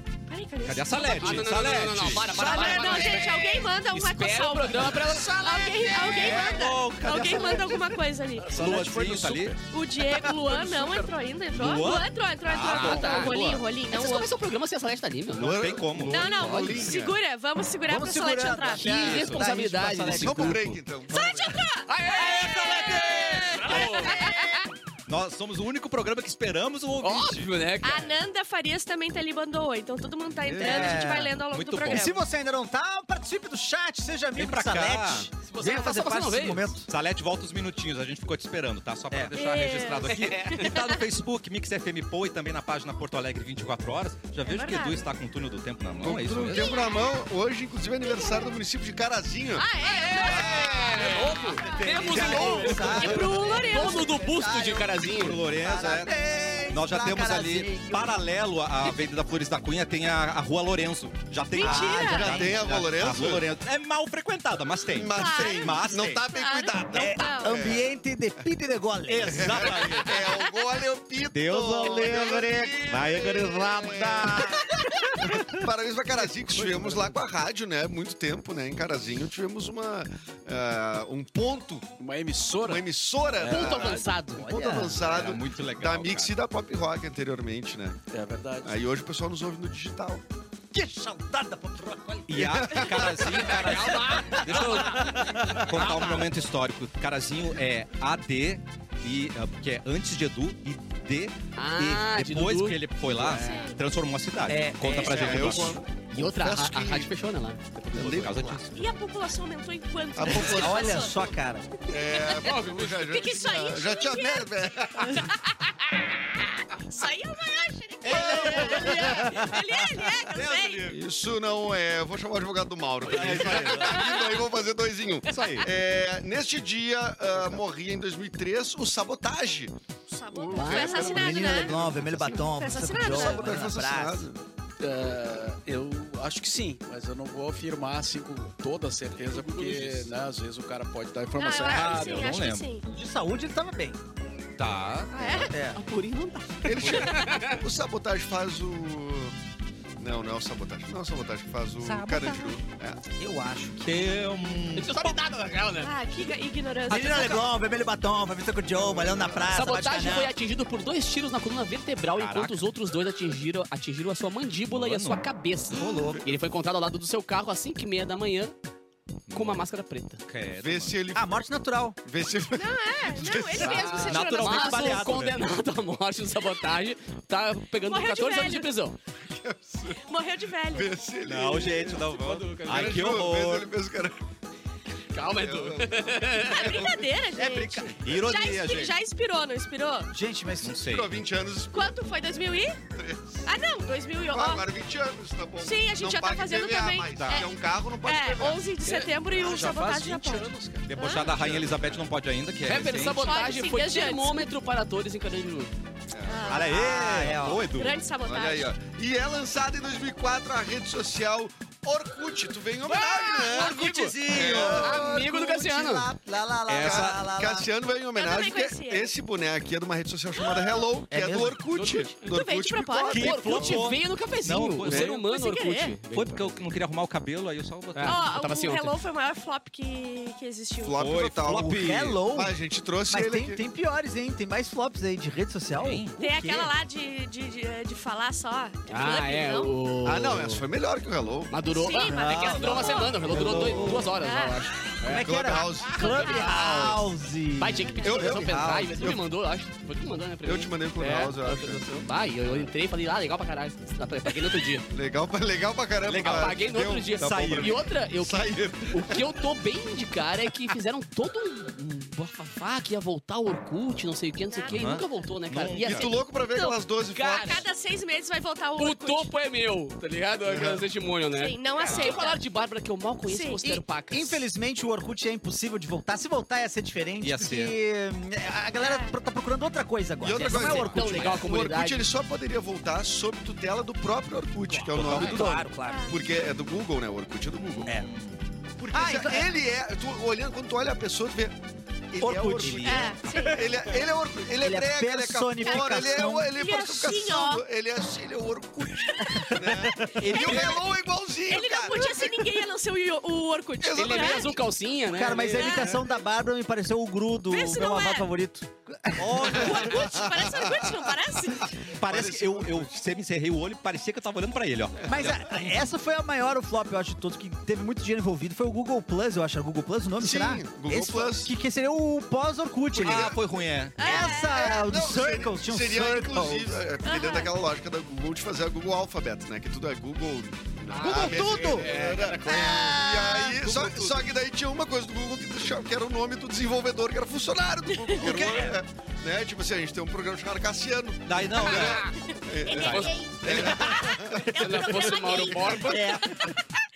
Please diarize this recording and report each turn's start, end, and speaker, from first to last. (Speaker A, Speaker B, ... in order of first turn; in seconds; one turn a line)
Speaker A: 0.3-8.6
Speaker B: 0.7-2.8
Speaker C: 1.1-6.6
Speaker D: 2.7-2.9
Speaker B: 6.0-8.0
Speaker E: 8.5-9.5
Speaker B: 8.5-9.6
Speaker A: 9.7-14.3
Speaker B: 11.5-13.6
Speaker C: 12.6-15.7
Speaker B: 15.4-16.6
Speaker F: 15.4-17.1
Speaker A: 16.1-19.1
Speaker D: 17.9-20.8
Speaker C: 18.8-20.8
Speaker B: 18.8-19.4
Speaker F: 20.1-21.6
Speaker A: 21.1-24.6
Speaker C: 21.9-24.6
Speaker D: 22.2-23.5
Speaker B: 22.4-24.4
Speaker B: 25.1-27.5
Speaker C: 27.0-28.2
Speaker A: 27.8-32.2
Speaker F: 30.4-31.2
Speaker D: 30.6-31.4
Speaker B: 31.4-32.1
Speaker D: 31.9-36.9
Speaker B: 34.4-35.3
Speaker C: 35.5-36.8
Speaker B: 36.9-46.8
Speaker A: 39.4-41.0
Speaker C: 40.3-40.6
Speaker A: 44.5-45.1
Speaker F: 46.0-49.7
Speaker A: 46.5-47.2
Speaker A: 48.0-48.6
Speaker A: 49.6-54.1
Speaker C: 49.8-55.4
Speaker F: 50.2-51.7
Speaker E: 51.2-51.5
Speaker D: 51.6-58.2
Speaker B: 51.7-53.2
Speaker F: 52.2-52.9
Speaker B: 55.1-56.1
Speaker B: 56.7-66.3
Speaker A: 61.5-62.4
Speaker D: 61.6-62.6
Speaker F: 61.6-63.5
Speaker F: 64.9-67.9
Speaker A: 65.1-67.6
Speaker D: 66.9-69.8
Speaker B: 69.1-70.3
Speaker F: 69.3-81.9
Speaker A: 70.0-70.5
Speaker B: 71.3-74.8
Speaker D: 74.9-75.5
Speaker E: 82.0-82.9
Speaker F: 82.6-88.0
Speaker B: 83.4-84.0
Speaker C: 83.4-84.5
Speaker D: 84.4-85.1
Speaker B: 84.9-86.4
Speaker E: 88.1-88.8
Speaker F: 88.6-90.2
Speaker D: 90.7-92.9
Speaker B: 92.3-105.8
Speaker F: 92.4-93.6
Speaker C: 93.4-96.3
Speaker D: 94.7-96.1
Speaker C: 101.6-103.7
Speaker A: 103.2-103.8
Speaker D: 104.5-105.8
Speaker F: 105.0-107.1
Speaker C: 106.1-108.6
Speaker B: 108.0-108.8
Speaker A: 108.7-111.3
Speaker F: 110.2-111.0
Speaker D: 110.2-111.7
Speaker F: 111.9-115.3
Speaker A: 112.0-112.4
Speaker C: 112.4-113.1
Speaker A: 113.0-114.5
Speaker A: 116.7-120.9
Speaker B: 118.0-119.5
Speaker D: 118.1-119.6
Speaker B: 120.2-121.0
Speaker F: 120.9-129.7
Speaker B: 123.0-124.2
Speaker A: 123.6-124.4
Speaker B: 125.3-125.7
Speaker A: 130.1-131.8
Speaker F: 130.3-134.4
Speaker D: 130.5-134.3
Speaker A: 132.4-133.6
Speaker E: 134.8-142.3
Speaker F: 135.0-135.5
Speaker A: 141.4-142.8
Speaker B: 141.6-142.7
Speaker D: 142.8-144.0
Speaker B: 144.6-145.1
Speaker A: 145.1-145.6
Speaker D: 145.5-145.8
Speaker C: 145.7-147.6
Speaker F: 146.7-149.3
Speaker F: 150.0-153.0
Speaker B: 151.8-152.6
Speaker D: 153.2-154.1
Speaker B: 153.8-155.2
Speaker C: 154.7-155.9
Speaker A: 155.8-157.3
Speaker B: 156.9-157.5
Speaker D: 156.9-160.3
Speaker F: 158.8-159.5
Speaker C: 159.5-168.6
Speaker B: 162.2-162.7
Speaker B: 164.7-165.2
Speaker F: 165.7-166.3
Speaker B: 169.3-169.7
Speaker C: 169.3-170.2
Speaker B: 170.2-171.0
Speaker F: 170.6-171.4
Speaker D: 171.1-172.0
Speaker F: 172.0-174.2
Speaker A: 172.5-175.0
Speaker B: 173.6-175.4
Speaker C: 173.7-179.0
Speaker A: 177.9-178.7
Speaker F: 179.2-180.0
Speaker A: 180.1-180.9
Speaker F: 180.7-184.2
Speaker B: 181.2-183.7
Speaker C: 182.1-183.1
Speaker C: 185.1-186.9
Speaker F: 185.3-187.1
Speaker A: 186.5-190.1
Speaker B: 187.3-188.9
Speaker D: 190.1-190.9
Speaker B: 190.6-191.1
Speaker F: 190.8-192.0
Speaker A: 191.7-192.8
Speaker F: 192.9-193.4
Speaker A: 193.5-194.7
Speaker F: 194.3-198.7
Speaker A: 195.6-197.5
Speaker B: 197.2-197.5
Speaker A: 198.0-201.3
Speaker E: 198.8-201.8
Speaker B: 200.8-203.2
Speaker F: 201.2-202.0
Speaker C: 202.7-205.7
Speaker A: 203.1-204.5
Speaker F: 206.1-206.7
Speaker A: 206.3-207.1
Speaker B: 206.5-208.0
Speaker D: 206.6-207.7
Speaker A: 207.8-208.7
Speaker F: 208.2-215.1
Speaker A: 212.9-213.5
Speaker B: 212.9-214.9
Speaker C: 213.6-214.1
Speaker D: 214.3-217.7
Speaker C: 214.8-216.1
Speaker B: 216.7-217.3
Speaker F: 216.7-223.8
Speaker A: 218.2-219.1
Speaker D: 221.1-221.6
Speaker C: 221.7-222.2
Speaker A: 222.2-223.4
Speaker B: 223.1-225.1
Speaker C: 223.1-226.7
Speaker A: 225.1-226.0
Speaker B: 226.1-228.2
Speaker C: 227.9-228.9
Speaker A: 228.1-231.0
Speaker F: 230.8-233.6
Speaker B: 231.0-232.2
Speaker D: 231.4-236.7
Speaker B: 235.8-236.2
Speaker A: 236.2-239.7
Speaker C: 238.9-240.7
Speaker F: 240.0-241.5
Speaker C: 241.5-245.4
Speaker A: 241.7-243.6
Speaker D: 242.0-244.1
Speaker F: 243.2-244.2
Speaker A: 244.1-244.7
Speaker D: 245.1-248.4
Speaker F: 245.1-246.5
Speaker C: 245.9-247.0
Speaker A: 246.2-246.8
Speaker C: 247.6-254.9
Speaker F: 248.0-249.2
Speaker B: 248.4-249.1
Speaker F: 250.4-251.8
Speaker F: 254.9-259.3
Speaker B: 256.1-256.6
Speaker C: 256.1-266.2
Speaker B: 257.2-257.9
Speaker A: 264.5-265.2
Speaker B: 264.7-266.2
Speaker F: 265.8-267.7
Speaker A: 266.5-269.3
Speaker C: 267.1-267.7
Speaker C: 268.8-274.4
Speaker F: 270.5-270.9
Speaker A: 271.4-272.4
Speaker A: 273.3-273.8
Speaker D: 273.7-281.4
Speaker B: 277.2-277.7
Speaker A: 278.8-279.1
Speaker F: 280.2-288.0
Speaker B: 280.5-281.4
Speaker C: 280.5-282.1
Speaker D: 284.7-286.1
Speaker B: 284.8-285.7
Speaker A: 285.9-286.2
Speaker B: 287.6-288.4
Speaker D: 288.8-289.5
Speaker F: 288.9-291.6
Speaker F: 292.1-302.4
Speaker D: 292.2-293.1
Speaker B: 292.5-293.5
Speaker A: 292.9-293.6
Speaker D: 294.6-296.5
Speaker A: 295.6-297.6
Speaker A: 299.1-299.5
Speaker D: 299.4-300.5
Speaker B: 300.2-300.8
Speaker A: 300.3-300.9
Speaker A: 301.5-304.6
Speaker F: 303.8-304.6
Speaker C: 303.9-305.9
Speaker D: 305.1-309.9
Speaker A: 305.6-306.0
Speaker A: 307.5-308.3
Speaker B: 309.2-310.0
Speaker F: 309.4-310.9
Speaker A: 309.5-311.7
Speaker B: 312.0-315.6
Speaker F: 312.0-312.9
Speaker D: 315.1-323.4
Speaker F: 320.2-321.5
Speaker F: 323.0-323.4
Speaker B: 323.0-324.0
Speaker A: 324.0-324.8
Speaker D: 324.0-326.8
Speaker F: 324.1-345.8
Speaker A: 327.0-327.5
Speaker C: 330.9-333.0
Speaker D: 331.0-331.9
Speaker D: 332.4-333.9
Speaker B: 333.6-334.2
Speaker A: 337.9-338.2
Speaker D: 338.2-338.8
Speaker B: 338.3-338.7
Speaker B: 341.2-342.1
Speaker A: 341.6-346.6
Speaker B: 342.7-343.1
Speaker C: 342.8-343.7
Speaker D: 343.5-344.4
Speaker C: 344.5-346.1
Speaker D: 345.8-346.5